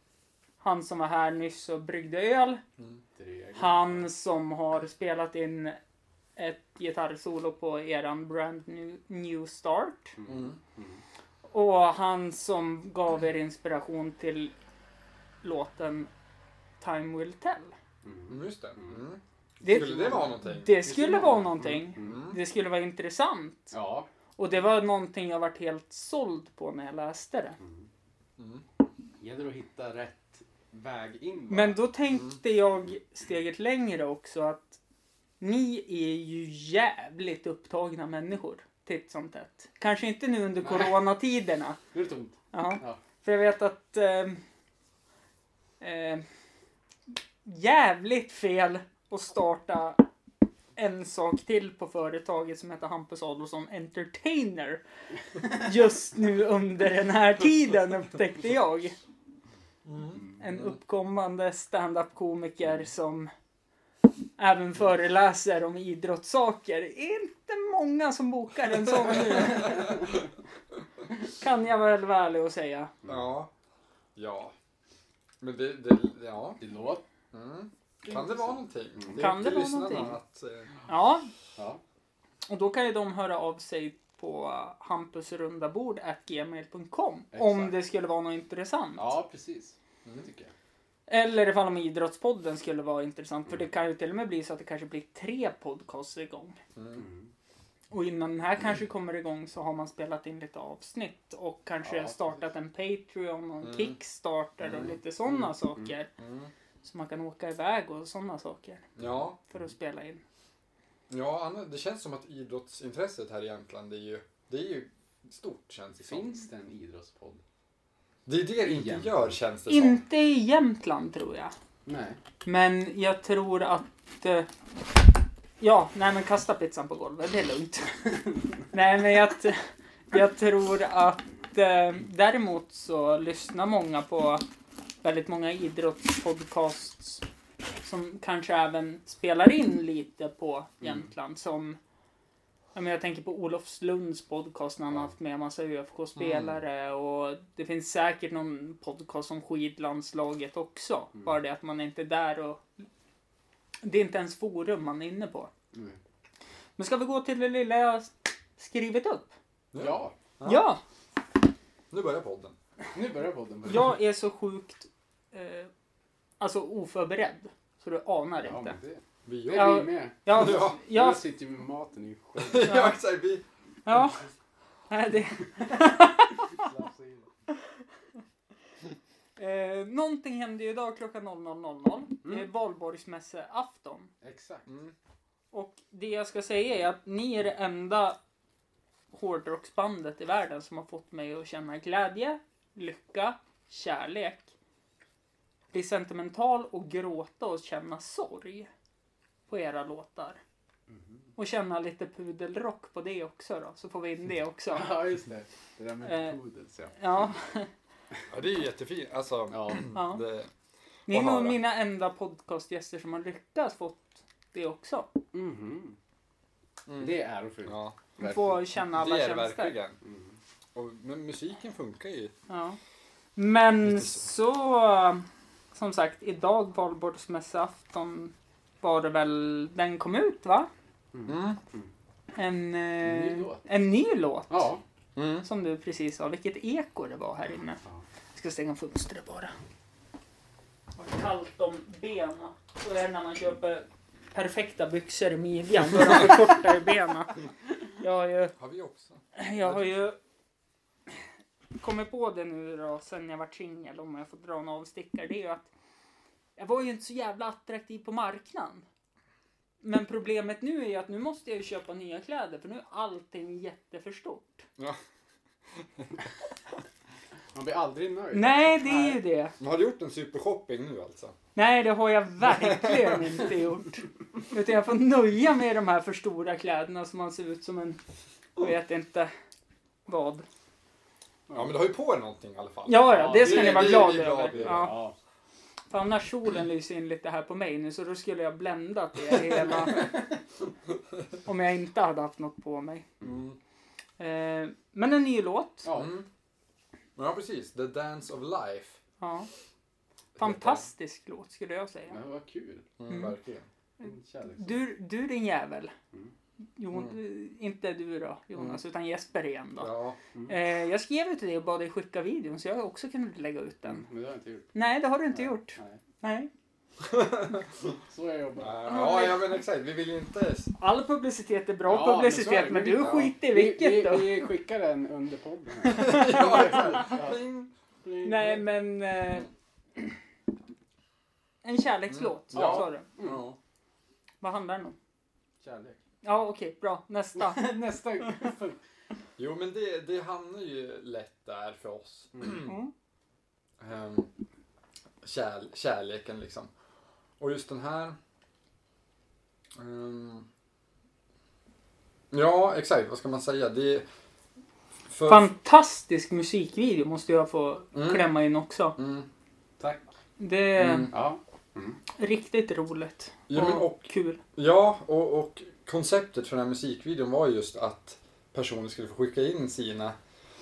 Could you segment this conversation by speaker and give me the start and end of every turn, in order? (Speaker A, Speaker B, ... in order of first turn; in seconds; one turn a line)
Speaker A: 0.6-2.6
Speaker B: 3.1-4.1
Speaker A: 3.5-5.8
Speaker A: 6.3-10.1
Speaker B: 10.2-11.0
Speaker C: 10.3-10.6
Speaker A: 11.5-14.5
Speaker A: 15.4-16.1
Speaker A: 16.8-17.7
Speaker B: 18.0-19.0
Speaker C: 18.3-20.7
Speaker A: 19.6-23.7
Speaker B: 19.6-22.2
Speaker C: 22.0-22.4
Speaker B: 23.7-24.1
Speaker A: 24.4-27.6
Speaker B: 27.6-27.9
Speaker C: 28.4-28.6
Speaker B: 29.2-31.8
Speaker A: 31.5-34.8
Speaker A: 35.4-41.8
Speaker B: 40.6-41.0
Speaker B: 41.9-43.0
Speaker A: 42.5-44.4
Speaker A: 45.8-46.2
Speaker A: 47.4-50.0
Speaker A: 50.8-54.8
Speaker A: 55.4-58.9
Speaker C: 59.8-60.7
Speaker A: 60.4-63.3
Speaker A: 64.4-70.0
Speaker A: 71.3-72.9
Speaker C: 73.0-73.5
Speaker C: 74.2-74.5
Speaker C: 75.4-76.6
Speaker B: 76.6-77.0
Speaker C: 77.3-80.8
Speaker B: 78.0-79.5
Speaker A: 79.1-80.1
Speaker A: 80.9-81.3
Speaker B: 81.5-81.8
Speaker A: 82.5-89.1
Speaker B: 87.3-87.7
Speaker B: 89.0-90.5
Speaker A: 91.1-96.6
Speaker C: 96.8-97.0
Speaker B: 97.0-97.3
Speaker A: 97.9-106.1
Speaker B: 101.8-102.4
Speaker C: 103.6-104.0
Speaker C: 104.6-104.9
Speaker C: 106.2-106.5
Speaker A: 106.8-108.9
Speaker C: 109.0-109.4
Speaker A: 109.5-110.2
Speaker C: 111.1-116.3
Speaker B: 116.0-117.4
Speaker C: 118.2-120.0
Speaker B: 118.6-119.3
Speaker A: 119.7-121.5
Speaker B: 121.8-122.2
Speaker A: 122.4-124.5
Speaker A: 125.6-134.4
Speaker A: 135.0-137.2
Speaker A: 137.8-141.8
Speaker A: 142.7-152.6
Speaker C: 146.2-146.6
Speaker A: 153.8-155.5
Speaker A: 156.8-159.3
Speaker C: 159.7-160.7
Speaker B: 159.8-160.1
Speaker A: 160.4-160.8
Speaker C: 161.9-162.6
Speaker B: 162.9-163.9
Speaker A: 163.7-165.7
Speaker A: 166.4-168.8
Speaker B: 168.4-172.8
Speaker C: 169.2-169.8
Speaker A: 169.5-171.2
Speaker C: 170.3-170.8
Speaker C: 172.4-173.4
Speaker A: 172.6-172.9
Speaker A: 173.8-174.2
Speaker A: 174.9-176.7
Speaker B: 176.4-177.3
Speaker A: 179.4-184.1
Speaker B: 182.2-182.5
Speaker B: 184.2-184.7
Speaker C: 184.7-184.9
Speaker A: 185.5-188.2
Speaker A: 189.1-194.5
Speaker A: 195.7-198.7
Speaker A: 199.5-200.4
Speaker A: 201.4-204.9
Speaker B: 204.7-206.9
Speaker A: 206.0-206.3
Speaker A: 206.9-207.7
Speaker C: 208.3-210.5
Speaker B: 209.5-209.8
Speaker A: 209.9-210.2
Speaker A: 211.1-215.1
Speaker C: 211.1-211.6
Speaker B: 215.3-216.0
Speaker C: 216.8-218.0
Speaker B: 217.0-218.6
Speaker A: 218.2-219.7
Speaker C: 218.9-220.0
Speaker B: 220.0-220.3
Speaker C: 220.7-222.3
Speaker A: 222.5-222.8
Speaker A: 223.3-230.7
Speaker C: 223.8-224.2
Speaker B: 231.1-231.9
Speaker C: 231.2-231.6
Speaker A: 232.3-234.7
Speaker B: 233.0-233.6
Speaker B: 234.5-234.8
Speaker C: 235.2-235.4
Speaker A: 235.4-237.8
Speaker A: 238.3-239.5
Speaker A: 240.9-247.4
Speaker A: 248.0-248.5
Speaker C: 248.6-249.8
Speaker A: 249.3-250.2
Speaker A: 251.8-255.7
Speaker A: 256.6-258.9
Speaker A: 259.8-264.6
Speaker B: 267.5-269.2
Speaker A: 268.3-269.5
Speaker C: 269.6-271.4
Speaker A: 271.6-278.0
Speaker C: 272.5-273.1
Speaker A: 278.6-279.3
Speaker A: 280.1-280.4
Speaker C: 281.5-284.9
Speaker A: 282.9-285.0
Speaker B: 283.1-285.1
Speaker A: 285.9-290.1
Speaker C: 289.3-289.6
Speaker A: 291.4-293.0
Speaker C: 293.2-293.6
Speaker A: 294.2-295.9
Speaker B: 295.8-296.1
Speaker C: 295.9-296.3
Speaker C: 297.1-299.0
Speaker A: 299.2-299.5
Speaker C: 300.4-300.9
Speaker A: 300.4-302.2
Speaker B: 302.1-302.9
Speaker C: 303.0-303.6
Speaker A: 303.1-303.3
Speaker B: 304.0-304.8
Speaker A: 304.6-305.9
Speaker A: 306.8-309.9
Speaker C: 309.8-310.2
Speaker A: 310.5-314.0
Speaker B: 313.9-314.7
Speaker A: 314.7-316.5
Speaker B: 315.4-316.0
Speaker C: 317.0-318.0
Speaker B: 318.1-318.8
Speaker C: 318.6-320.7
Speaker A: 318.9-319.4
Speaker A: 320.8-324.4
Speaker B: 321.9-327.4
Speaker C: 325.9-327.7
Speaker B: 328.0-328.6
Speaker A: 328.2-329.5
Speaker A: 331.6-333.1
Speaker C: 332.1-333.6
Speaker B: 332.5-333.5
Speaker A: 334.4-334.9
Speaker B: 335.6-336.0
Speaker A: 336.2-337.8
Speaker B: 337.4-338.8
Speaker C: 339.4-342.7
Speaker A: 342.6-342.9
Speaker C: 343.8-344.3
Speaker C: 345.2-346.7
Speaker C: 347.4-348.2
Speaker C: 349.8-350.5
Speaker C: 352.3-354.1
Speaker C: 355.1-355.5
Speaker A: 355.3-358.9
Speaker C: 357.9-358.2
Speaker C: 359.0-359.3
Speaker A: 360.4-361.1
Speaker C: 360.8-361.1
Speaker B: 361.1-362.0
Speaker A: 362.1-364.4
Speaker C: 363.5-370.1